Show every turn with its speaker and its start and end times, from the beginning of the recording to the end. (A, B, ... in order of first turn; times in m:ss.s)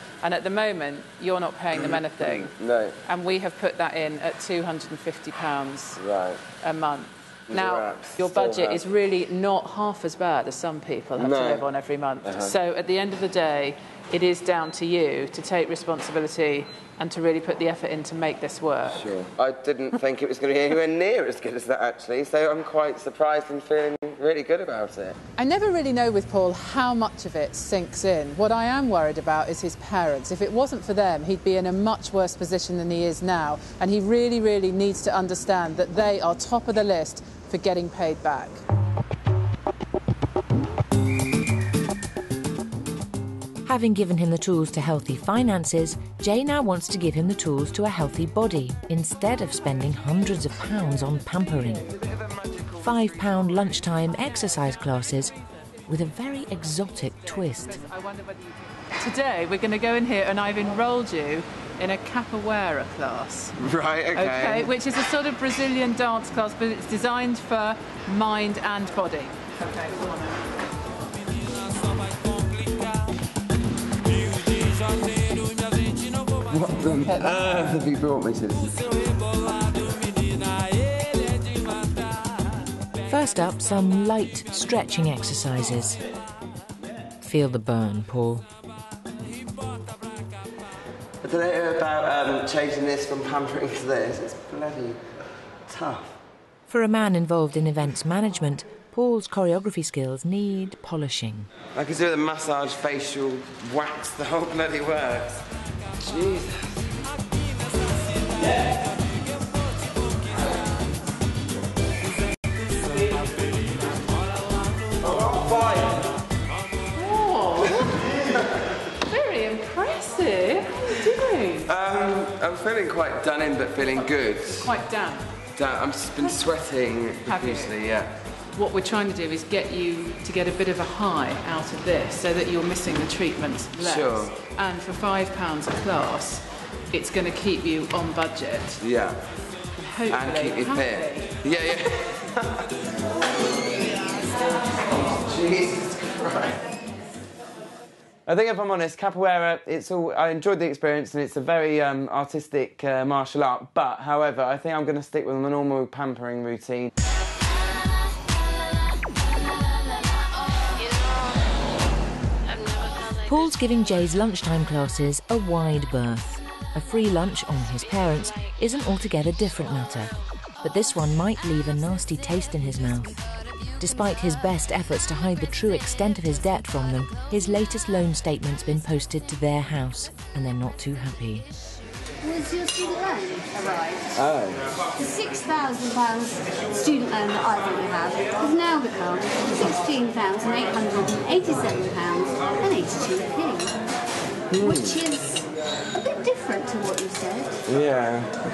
0:00.2-0:02.5 A
0:01.7-0:03.0 B
0:03.0-0:06.0 A
0:06.0-0:06.4 B
0:06.6-0:19.1 A
0:07.5-0:08.8 B
0:11.2-0:11.6 B
0:12.2-0:12.5 B
0:18.9-0:25.2 B
0:25.4-0:38.6 A
0:43.6-0:51.9 C
0:51.9-0:53.6 B
0:52.8-0:55.3 C
0:55.9-0:57.8 C
0:57.7-1:03.5 A
1:03.6-1:04.7 B
1:04.2-1:10.4 A
1:16.5-1:19.2 B
1:23.1-1:26.0 C
1:27.2-1:28.4 C
1:31.2-1:35.0 B
1:35.7-1:36.2 B
1:36.7-1:41.5 C
1:41.7-1:45.4 B
1:46.0-1:46.9 B
1:55.0-1:55.8 B
1:56.9-1:58.0 A
1:59.1-2:01.7 A
2:01.7-2:04.7 B
2:04.6-2:05.3 A
2:05.6-2:08.1 B
2:07.2-2:07.7 A
2:08.6-2:18.8 A
2:13.8-2:14.3 B
2:18.8-2:19.2 B
2:19.8-2:21.7 A
2:20.1-2:22.7 B
2:23.9-2:26.6 B
2:28.3-2:36.9 B
2:43.2-2:50.1 C
2:50.6-2:53.2 C
2:53.8-3:01.4 C
3:02.2-3:04.2 D
3:04.1-3:04.8 B
3:05.0-3:13.8 D
3:14.5-3:15.0 B
3:14.6-3:17.6 D
3:17.7-3:18.3 B